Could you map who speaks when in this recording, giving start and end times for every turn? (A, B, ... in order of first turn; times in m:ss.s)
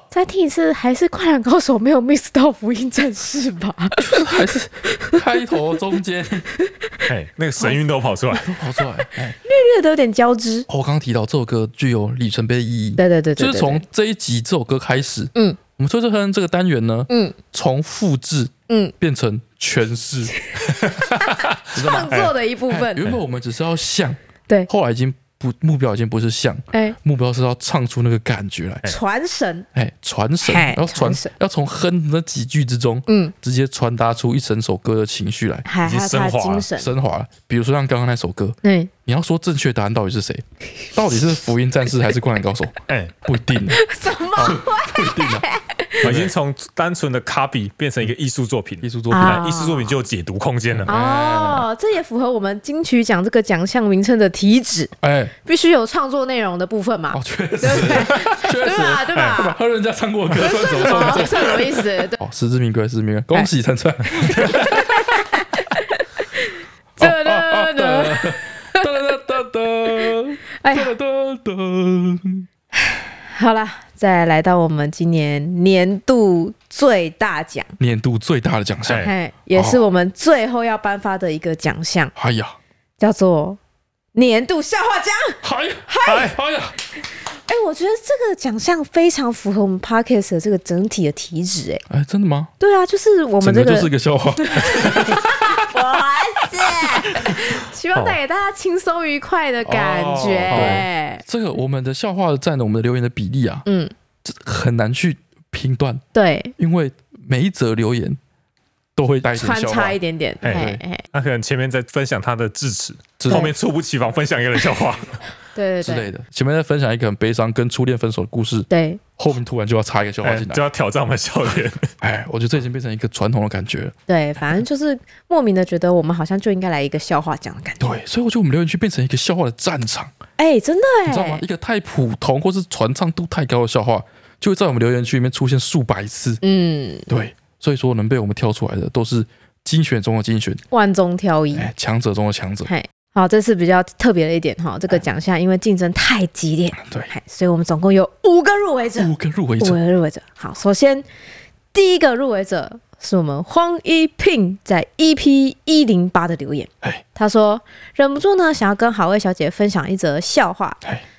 0:00.1-0:05.2 A
0:04.0-0:06.5 B
0:06.6-0:07.0 A
0:07.1-0:08.5 C
0:08.3-0:09.4 B
0:09.4-0:10.7 A
0:10.7-0:20.4 B
0:13.0-0:13.8 A
0:17.1-0:17.4 A
0:18.7-0:18.9 A
0:20.4-0:23.0 A
0:20.8-0:21.6 C
0:21.7-0:28.9 B
0:28.8-0:29.7 A
0:29.7-0:35.7 B
0:30.4-0:31.3 A
0:33.1-0:33.3 A
0:35.6-0:36.9 A
0:35.8-0:36.7 C
0:36.7-0:43.8 B
0:38.6-0:38.9 A
0:42.9-0:43.1 C
0:43.7-0:46.1 A
0:44.4-0:45.4 B
0:46.0-0:50.9 C
0:46.0-0:46.3 B
0:48.8-0:49.5 B
0:49.1-0:49.9 A
0:50.8-0:51.6 B
0:50.9-0:54.9 A
0:55.0-0:55.3 B
0:55.4-0:59.6 A
0:57.1-1:05.2 B
0:59.1-0:59.5 C
1:00.4-1:02.2 A
1:04.2-1:08.8 A
1:07.0-1:12.4 B
1:10.6-1:10.9 A
1:12.8-1:17.7 A
1:17.8-1:19.8 B
1:19.0-1:22.1 A
1:22.2-1:22.6 B
1:23.0-1:23.6 A
1:24.1-1:26.3 A
1:25.4-1:26.8 B
1:26.0-1:26.3 C
1:27.4-1:31.8 A
1:31.9-1:32.5 B
1:32.6-1:33.9 A
1:33.4-1:35.6 B
1:34.4-1:41.2 A
1:39.6-1:43.6 B
1:40.5-1:40.8 C
1:43.6-1:43.9 A
1:44.2-1:46.0 B
1:46.1-1:46.5 A
1:46.6-1:48.2 B
1:49.0-1:50.0 B
1:49.3-1:51.0 A
1:50.4-1:55.2 C
1:50.5-1:50.8 B
1:53.2-1:53.5 B
1:55.5-1:56.1 A
1:55.8-2:00.6 B
1:58.7-1:59.0 A
2:00.2-2:01.9 C
2:02.0-2:03.9 B
2:04.1-2:08.0 A
2:07.8-2:10.1 B
2:10.4-2:11.4 A
2:11.0-2:16.4 B
2:16.4-2:17.1 A
2:17.1-2:20.6 B
2:20.7-2:21.7 A
2:21.5-2:22.7 B
2:22.6-2:31.0 A
2:26.8-2:27.1 B
2:29.0-2:29.8 B
2:31.7-2:40.8 A